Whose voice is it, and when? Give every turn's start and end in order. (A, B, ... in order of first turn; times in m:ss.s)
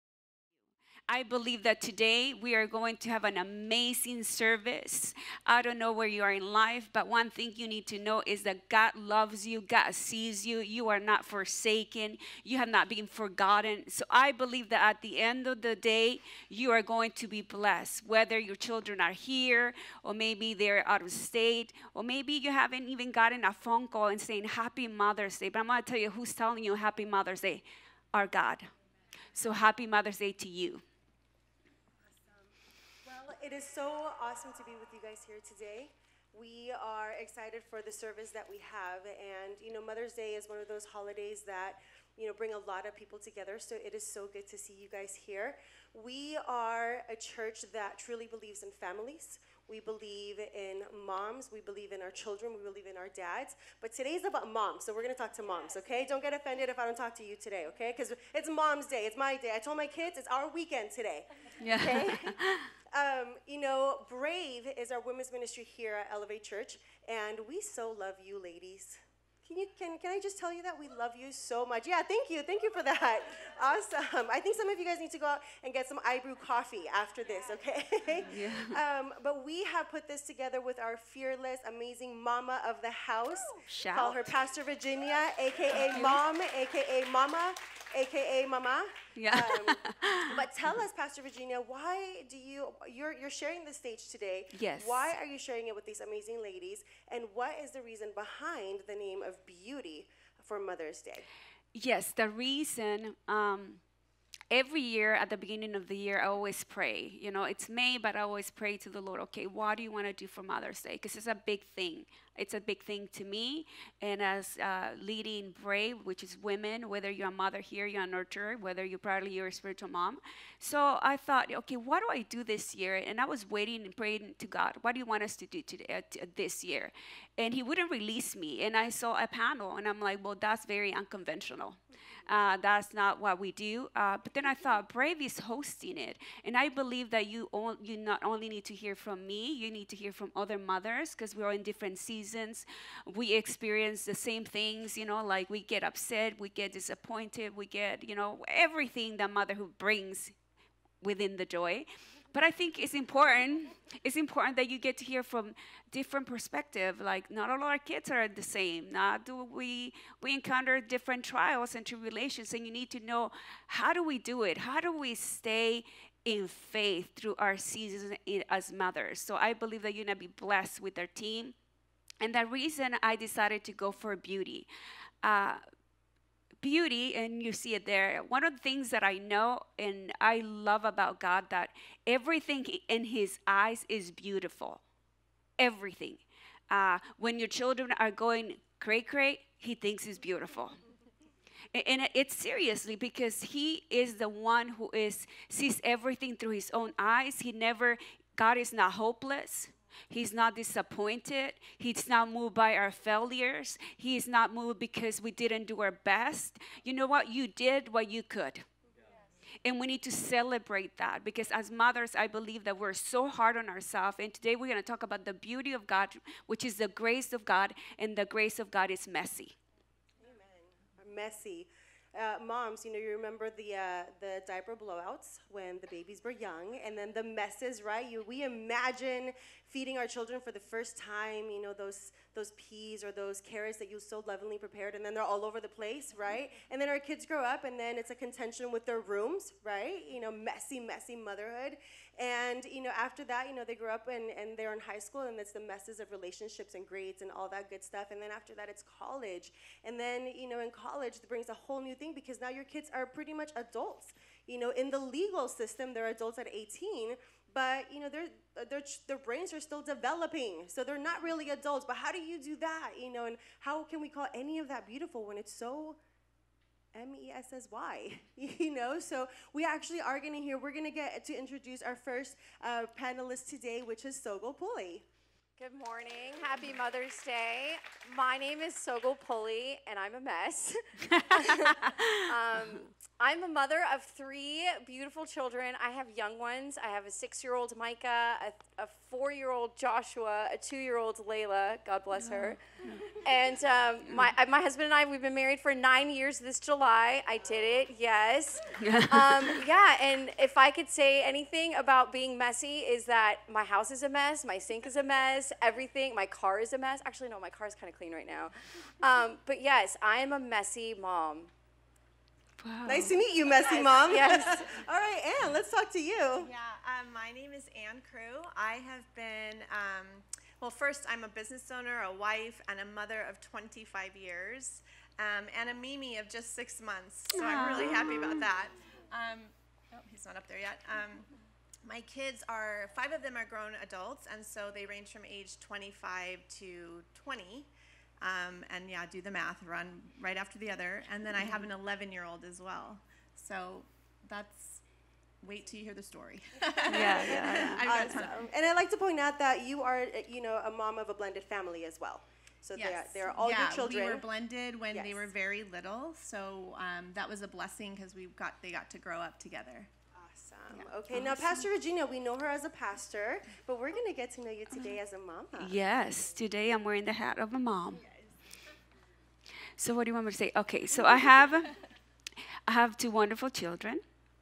0:01.1-0:28.7 A
0:29.3-0:30.8 A
0:32.2-0:32.5 B
0:33.0-1:02.4 B
1:01.6-1:02.7 A
1:02.9-1:41.3 B
1:18.3-1:18.8 A
1:23.7-1:24.2 A
1:25.8-1:26.2 A
1:29.2-1:30.4 A
1:34.5-1:35.1 A
1:41.8-1:43.8 A
1:44.5-2:30.3 A
2:31.0-2:51.6 A
2:52.2-2:54.7 A
2:55.2-2:55.6 A
2:56.6-3:04.8 A
3:05.6-3:10.8 A
3:11.7-3:28.6 A
3:29.6-3:39.6 A
3:40.2-4:26.0 B
4:26.9-4:35.0 B
4:35.6-4:52.6 C
4:41.3-4:42.2 A
4:52.2-4:53.1 A
4:53.2-5:11.5 C
4:58.8-4:59.6 A
5:12.6-5:13.2 A
5:12.9-5:16.5 B
5:13.6-5:14.7 C
5:16.4-5:31.3 D
5:27.3-5:28.4 A
5:31.8-5:37.7 D
5:38.2-5:44.8 D
5:45.4-5:48.5 D
5:46.8-5:54.2 B
5:46.9-5:47.8 A
5:52.8-5:59.9 D
5:54.9-5:55.2 B
6:00.1-6:05.8 B
6:00.7-6:01.7 D
6:05.6-6:08.0 A
6:09.8-6:11.7 A
6:12.7-6:14.0 A